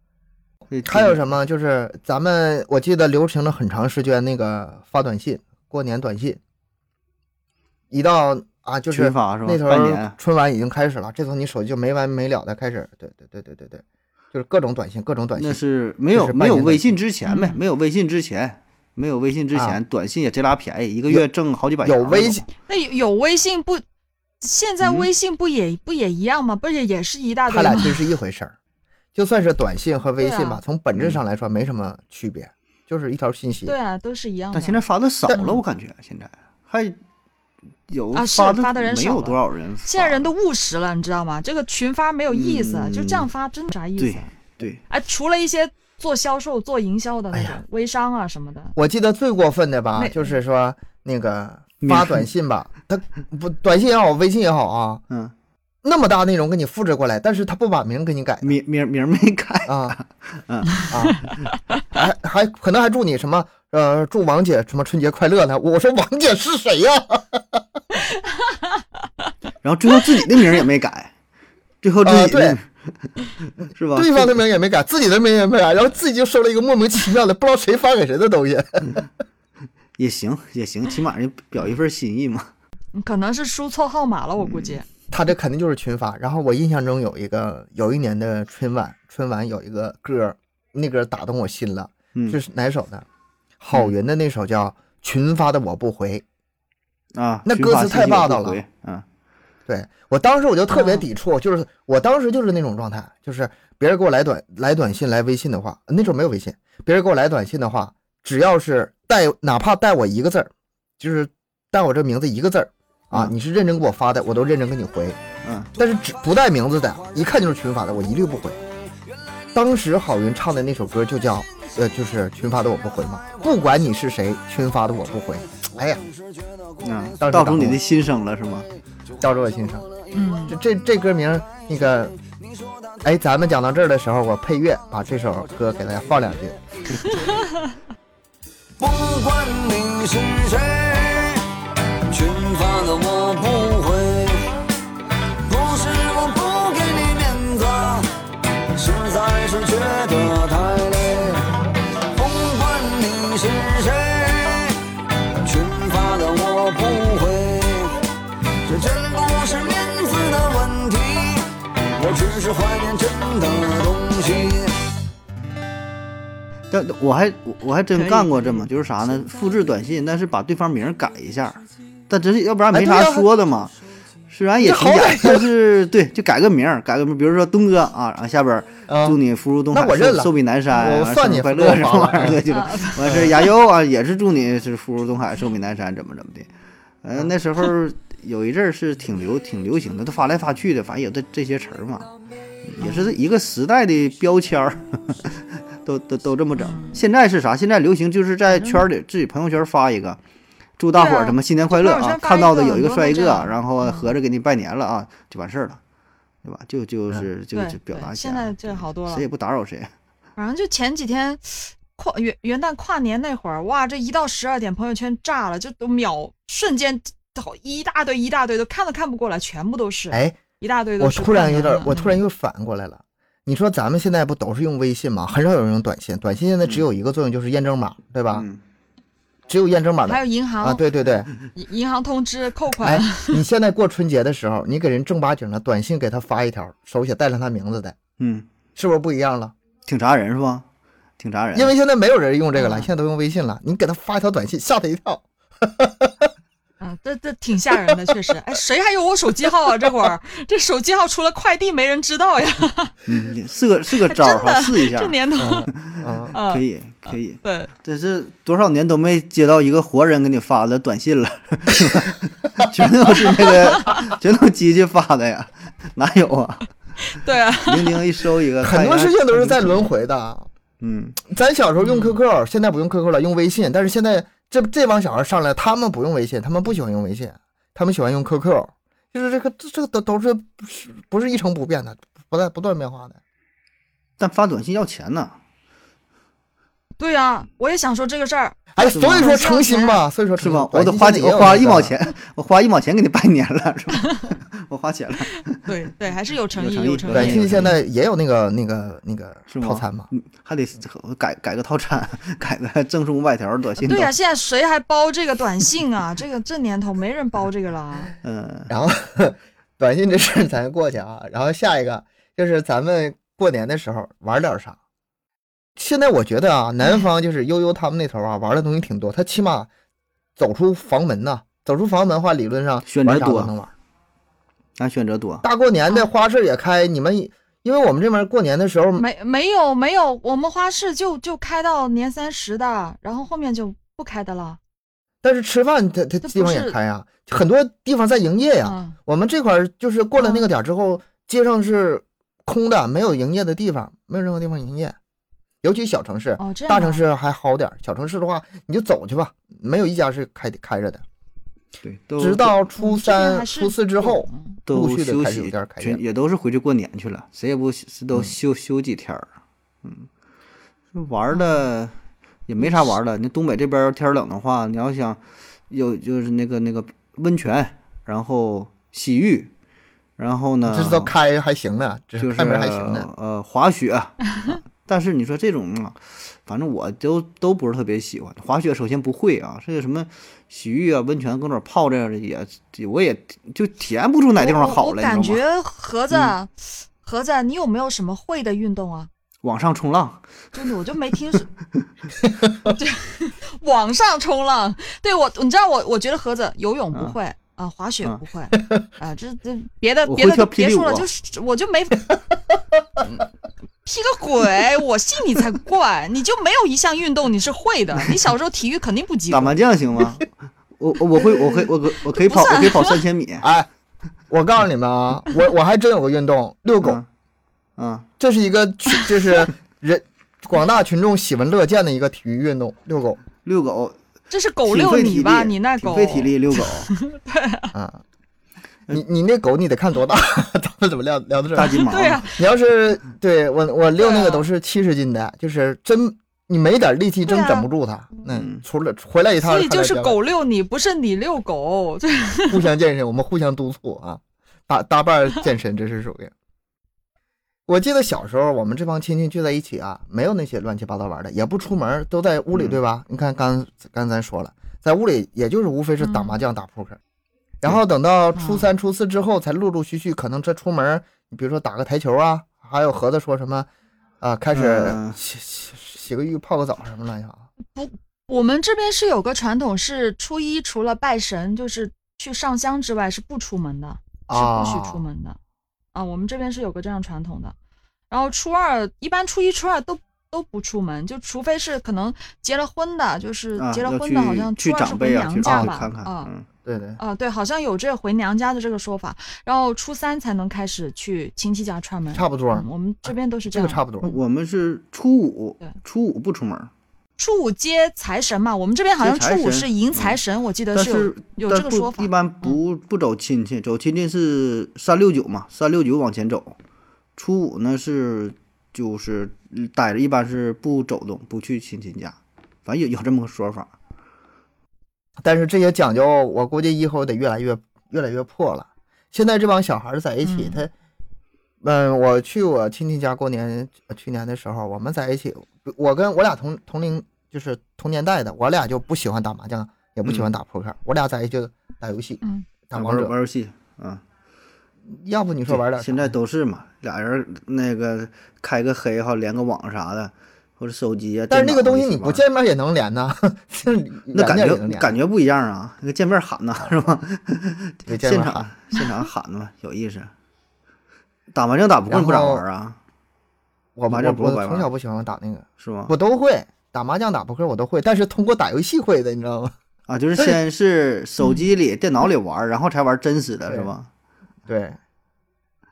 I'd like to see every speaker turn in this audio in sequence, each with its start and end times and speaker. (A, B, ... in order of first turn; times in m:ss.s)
0:00.7-0:01.2 A
0:00.8-0:06.4 B
0:07.9-0:15.6 B
0:08.9-0:10.2 A
0:15.4-0:22.5 A
0:16.1-0:17.0 B
0:17.3-0:17.6 C
0:21.8-0:22.4 B
0:22.7-0:23.8 C
0:24.4-0:28.0 C
0:24.8-0:25.1 A
0:27.5-0:28.6 B
0:29.2-0:33.7 B
0:30.2-0:30.6 C
0:31.0-0:31.2 A
0:33.6-0:34.8 C
0:34.5-0:37.0 A
0:37.9-0:40.3 A
0:38.1-0:44.3 C
0:42.3-0:43.3 A
0:44.0-0:44.8 A
0:44.9-0:48.8 C
0:47.3-0:47.6 B
0:48.8-0:55.0 B
0:50.0-0:50.4 C
0:51.8-0:52.3 A
0:55.8-0:58.5 B
0:58.4-1:00.9 A
0:59.7-1:00.0 B
1:00.9-1:01.2 B
1:01.9-1:07.6 B
1:08.1-1:08.8 C
1:09.6-1:11.1 A
1:11.8-1:12.7 A
1:12.0-1:12.6 B
1:13.7-1:14.4 A
1:14.0-1:19.0 B
1:20.0-1:22.5 A
1:22.9-1:24.9 C
1:25.1-1:33.1 B
1:33.6-1:36.2 B
1:37.2-1:39.0 A
1:37.5-1:38.6 B
1:39.7-1:55.2 B
1:40.7-1:41.1 C
1:55.4-1:55.7 A
1:55.8-1:58.6 B
1:59.5-2:06.0 B
2:06.8-2:08.7 A
2:06.8-2:07.1 D
2:07.2-2:07.8 B
2:09.2-2:09.9 B
2:10.1-2:10.6 C
2:10.5-2:12.2 B
2:13.0-2:16.6 B
2:18.8-2:21.5 D
2:22.1-2:24.5 D
2:25.4-2:28.1 D
2:28.7-2:31.6 D
2:32.1-2:34.8 D
2:35.4-2:38.0 D
2:38.6-2:44.8 D
2:46.7-2:53.8 A
2:48.0-2:48.6 C
2:52.7-2:53.3 B
2:54.3-3:06.5 A
2:54.6-2:55.5 B
2:58.9-2:59.2 B
2:59.7-3:02.4 B
3:02.5-3:03.3 C
3:03.0-3:03.3 B
3:07.0-3:12.1 A
3:12.6-3:20.2 A
3:12.8-3:13.2 C
3:16.6-3:17.0 C
3:18.5-3:18.9 C
3:20.8-3:25.8 A
3:20.9-3:24.2 C
3:26.4-3:29.9 A
3:27.5-3:29.2 C
3:30.4-3:42.2 C
3:40.1-3:40.4 B
3:41.0-3:48.5 B
3:48.3-3:48.6 A
3:49.5-3:51.3 B
3:50.1-3:50.8 C
3:51.6-3:53.4 C
3:52.8-3:58.0 B
3:58.2-3:58.5 A
3:58.8-3:59.5 B
3:59.9-4:00.6 A
4:01.2-4:01.7 A
4:01.6-4:06.3 B
4:02.6-4:02.9 C
4:06.8-4:13.0 C
4:13.1-4:15.2 A
4:14.0-4:15.7 C
4:15.4-4:16.3 B
4:15.7-4:26.7 A
4:16.3-4:16.6 C
4:17.4-4:17.7 C
4:23.6-4:23.9 C
4:27.0-4:28.0 C
4:27.6-4:29.9 A
4:28.6-4:30.5 B
4:30.8-4:31.2 A
4:31.3-4:43.2 B
4:31.8-4:32.2 C
4:44.2-4:45.4 A
4:47.0-4:50.0 C
4:48.8-4:52.0 B
4:48.9-4:49.4 A
4:50.4-4:55.7 A
4:55.3-4:57.7 C
4:56.6-4:57.7 A
4:57.1-5:00.1 B
4:59.5-5:04.1 A
5:03.8-5:08.1 C
5:08.2-5:08.7 A
5:08.7-5:14.8 B
5:15.8-5:19.7 B
5:20.4-5:23.7 B
5:22.9-5:23.5 A
5:24.8-5:25.4 A
5:25.4-5:29.0 B
5:29.0-5:34.6 C
5:35.2-5:45.0 B
5:36.2-5:36.8 C
5:38.6-5:39.0 C
5:40.2-5:40.5 C
5:45.6-5:51.0 B
5:46.4-5:47.0 C
5:51.8-5:52.6 A
5:52.2-5:56.0 B
5:52.8-5:54.6 C
5:54.7-5:59.3 A
6:00.9-6:01.9 A
6:01.3-6:01.7 C
6:02.5-6:09.5 A
6:02.6-6:03.0 C
6:10.2-6:11.1 A
6:10.7-6:13.1 B
6:12.2-6:25.4 A
6:24.4-6:29.1 C
6:29.4-6:30.2 A
6:30.5-6:31.5 C
6:32.7-6:42.2 C
6:40.1-6:41.1 A
6:43.0-6:43.3 C
6:43.8-6:49.5 C
6:49.3-6:53.5 A
6:52.0-6:53.0 C
6:53.4-6:53.7 B
6:54.3-6:57.0 B
6:56.8-6:57.1 A
6:57.8-6:58.1 A
6:58.2-7:03.2 B
7:03.4-7:04.0 A
7:04.3-7:07.7 C
7:04.6-7:06.9 A
7:07.7-7:08.0 B
7:08.9-7:11.8 B
7:11.5-7:12.2 A
7:11.8-7:12.4 C
7:12.4-7:20.2 B
7:14.0-7:14.5 C
7:17.2-7:17.7 C
7:18.3-7:18.6 A
7:19.4-7:22.6 C
7:22.5-7:26.3 B
7:27.7-7:37.0 B
7:36.0-7:36.4 C
7:37.6-7:43.7 B
7:38.4-7:38.7 C
7:44.2-7:47.4 B
7:44.5-7:45.2 A
7:47.7-7:55.4 C
7:54.3-7:55.0 B
7:55.9-7:57.6 C
7:58.1-8:06.3 C
8:03.6-8:06.5 A
8:05.4-8:05.8 B
8:06.6-8:07.0 B
8:07.0-8:13.8 C
8:12.1-8:14.1 B
8:14.0-8:16.7 A
8:17.2-8:22.6 C
8:19.0-8:20.2 A
8:20.7-8:26.6 A
8:27.2-8:33.7 A
8:35.2-8:40.7 B
8:40.2-8:40.7 C
8:41.6-8:53.1 B
8:50.0-8:50.3 A
8:52.7-8:54.0 A
8:54.9-8:56.1 B
8:55.5-9:02.2 A
9:01.3-9:04.9 B
9:04.1-9:10.1 A
9:07.9-9:08.5 B
9:11.3-9:12.8 A
9:11.9-9:12.4 B
9:13.8-9:19.5 B
9:13.9-9:14.7 A
9:15.6-9:15.9 A
9:19.9-9:23.9 A
9:21.2-9:21.5 C
9:24.5-9:24.8 B